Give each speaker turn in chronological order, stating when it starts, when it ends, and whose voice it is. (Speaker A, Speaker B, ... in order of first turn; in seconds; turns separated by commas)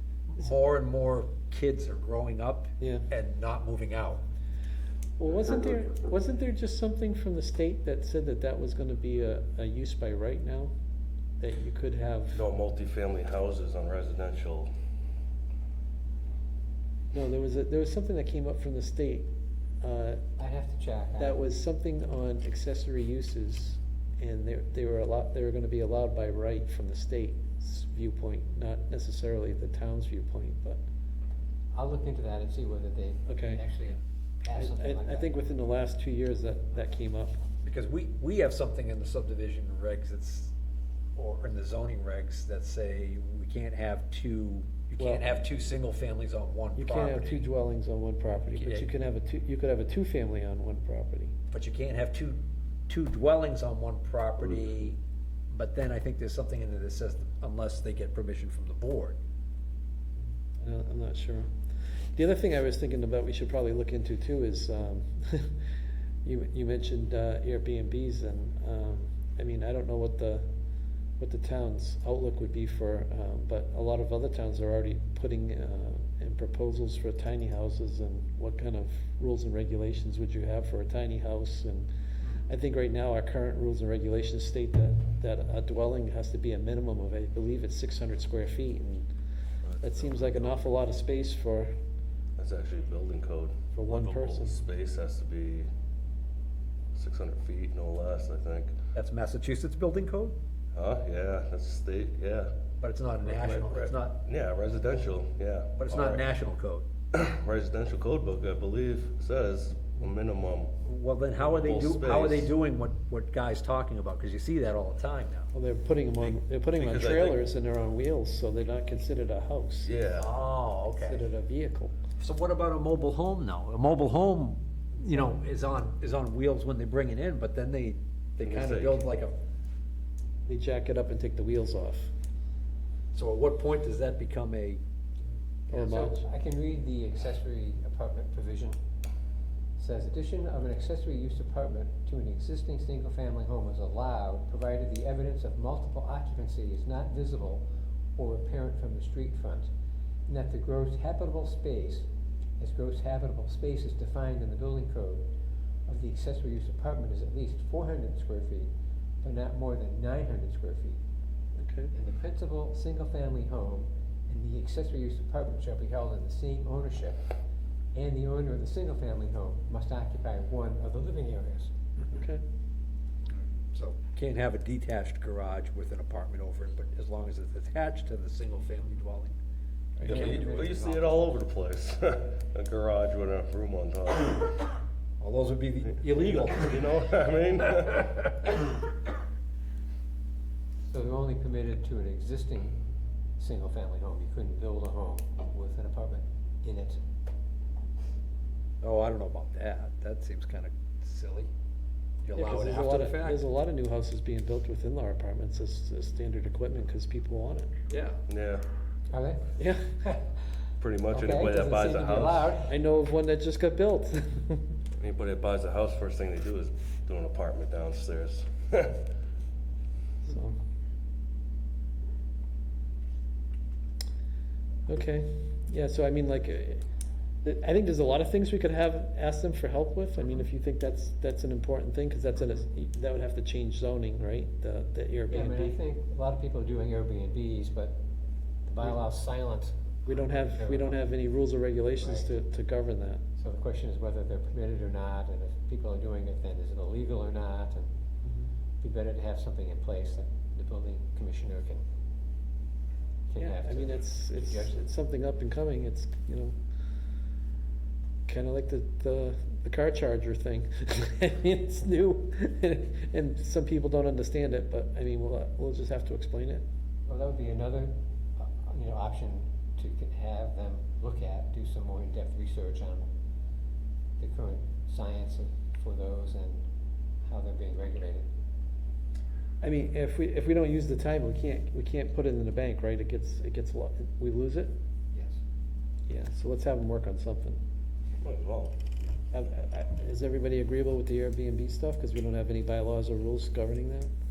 Speaker A: 0.3-4.2, Speaker B: 2.8-3.0, Speaker B: 5.2-10.7, Speaker B: 11.4-12.4, Speaker C: 12.3-14.7, Speaker B: 17.1-19.3, Speaker B: 19.8-20.2, Speaker D: 20.4-21.4, Speaker B: 21.2-30.8, Speaker D: 31.7-35.3, Speaker B: 33.3-33.6, Speaker B: 34.5-37.4, Speaker A: 37.6-40.5, Speaker A: 41.1-47.4, Speaker B: 45.0-45.2, Speaker B: 46.8-51.3, Speaker A: 48.5-48.9, Speaker A: 51.5-55.0, Speaker A: 55.5-59.2, Speaker B: 60.6-61.5, Speaker B: 62.1-65.5, Speaker B: 66.2-70.5, Speaker B: 71.2-81.9, Speaker B: 82.4-89.1, Speaker C: 89.6-90.5, Speaker B: 89.8-91.7, Speaker C: 92.4-95.7, Speaker B: 93.7-94.6, Speaker C: 96.9-98.7, Speaker A: 98.9-100.3, Speaker C: 100.7-102.5, Speaker A: 102.8-104.2, Speaker C: 103.2-106.2, Speaker A: 105.8-106.8, Speaker C: 107.1-110.7, Speaker A: 110.8-115.5, Speaker C: 111.5-112.5, Speaker B: 115.5-119.9, Speaker C: 116.2-117.4, Speaker C: 119.8-120.3, Speaker A: 120.2-121.2, Speaker B: 121.0-121.9, Speaker A: 122.2-129.4, Speaker C: 128.4-129.1, Speaker B: 130.5-132.1, Speaker A: 133.1-134.8, Speaker D: 135.7-138.8, Speaker B: 135.7-136.2, Speaker D: 139.8-147.6, Speaker D: 148.2-149.7, Speaker D: 150.3-152.1, Speaker D: 152.6-155.2, Speaker D: 155.9-158.7, Speaker D: 159.2-161.0, Speaker B: 161.6-161.9, Speaker D: 161.9-167.2, Speaker D: 167.9-171.7, Speaker B: 172.0-172.4, Speaker A: 173.7-179.3, Speaker A: 180.0-180.4, Speaker C: 180.0-184.7, Speaker D: 180.0-181.0, Speaker A: 185.2-186.8, Speaker C: 186.1-188.5, Speaker D: 190.9-192.7, Speaker D: 193.4-197.0, Speaker A: 198.8-201.5, Speaker A: 202.2-203.4, Speaker B: 202.3-207.7, Speaker A: 207.9-208.2, Speaker C: 208.3-208.7, Speaker D: 209.1-209.5, Speaker B: 209.6-209.9, Speaker C: 210.8-212.5, Speaker D: 211.1-212.8, Speaker B: 212.6-214.7, Speaker C: 215.0-219.0, Speaker B: 220.2-220.6, Speaker B: 224.9-226.8, Speaker B: 227.4-235.8, Speaker D: 235.3-238.0, Speaker D: 238.7-240.9, Speaker B: 240.1-243.2, Speaker D: 242.0-242.3, Speaker D: 243.4-247.9, Speaker D: 248.8-251.8, Speaker D: 253.3-254.8, Speaker B: 253.4-256.5, Speaker B: 258.3-266.6, Speaker D: 267.1-273.1, Speaker D: 274.2-276.6, Speaker D: 277.3-278.3, Speaker B: 279.6-284.7, Speaker B: 286.1-287.6, Speaker C: 288.2-288.7, Speaker B: 289.3-294.1